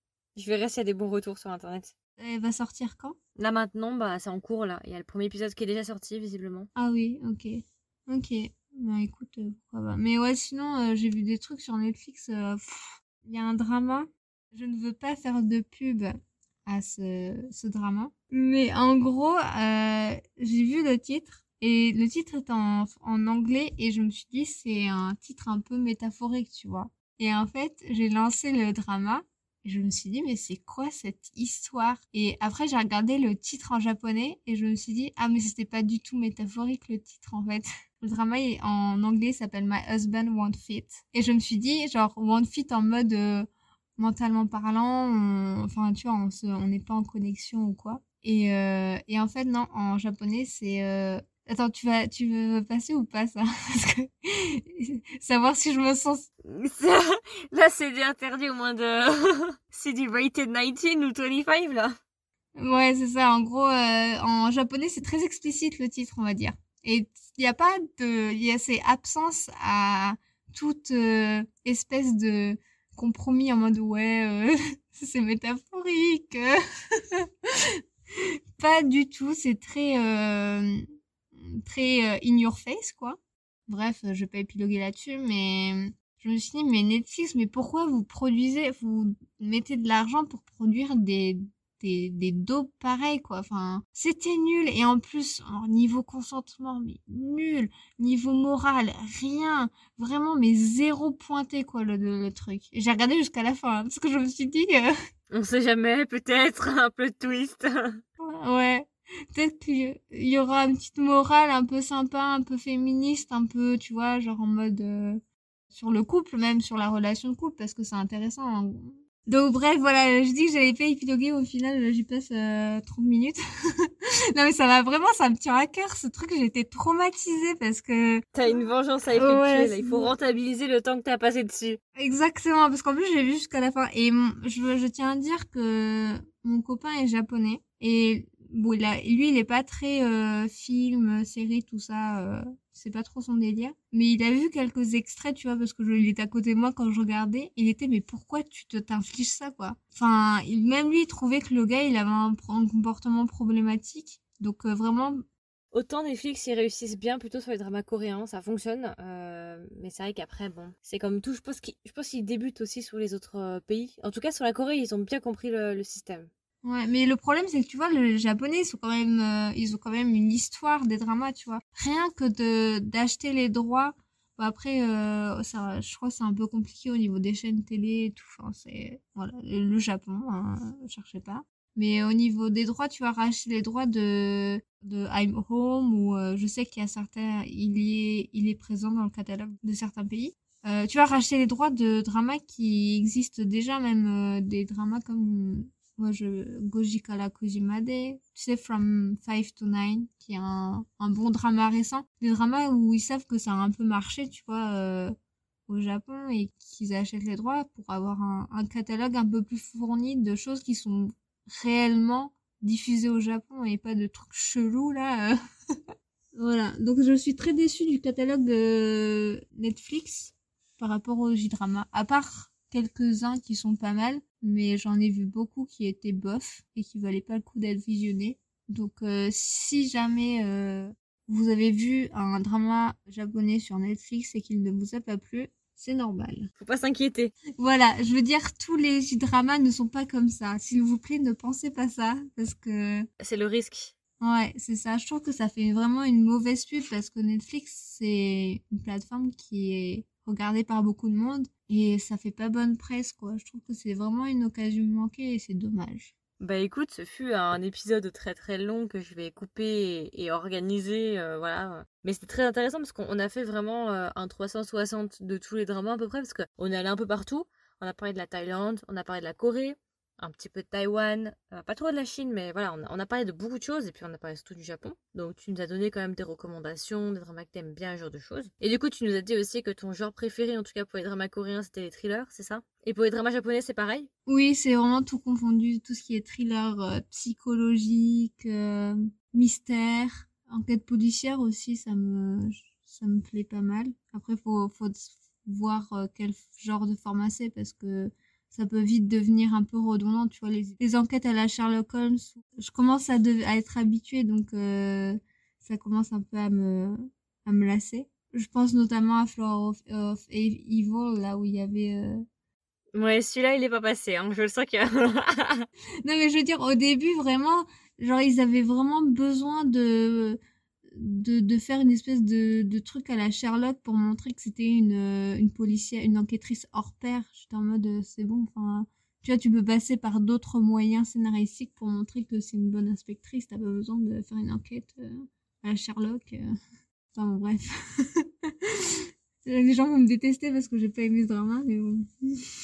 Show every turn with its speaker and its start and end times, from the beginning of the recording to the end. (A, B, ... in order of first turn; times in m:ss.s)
0:00.4-0:01.9 A
0:02.2-0:03.2 B
0:03.4-0:06.7 A
0:06.8-0:56.3 B
0:56.4-1:02.0 A
1:02.6-1:20.8 B
1:21.4-1:44.9 B
1:45.3-1:48.0 A
1:48.2-2:08.5 B
2:08.3-2:11.8 A
2:09.1-2:10.1 B
2:12.0-2:35.2 B
2:35.7-2:46.3 A
2:46.6-3:25.1 B
3:25.7-3:35.4 B
3:36.4-3:56.5 B
3:56.6-3:57.3 A
3:57.6-4:03.1 B
4:03.2-4:03.9 A
4:04.2-4:16.1 B
4:16.4-4:44.1 A
4:44.2-5:12.2 B
5:12.9-5:15.7 A
5:16.0-5:20.4 B
5:20.9-5:36.4 B
5:37.1-5:42.5 B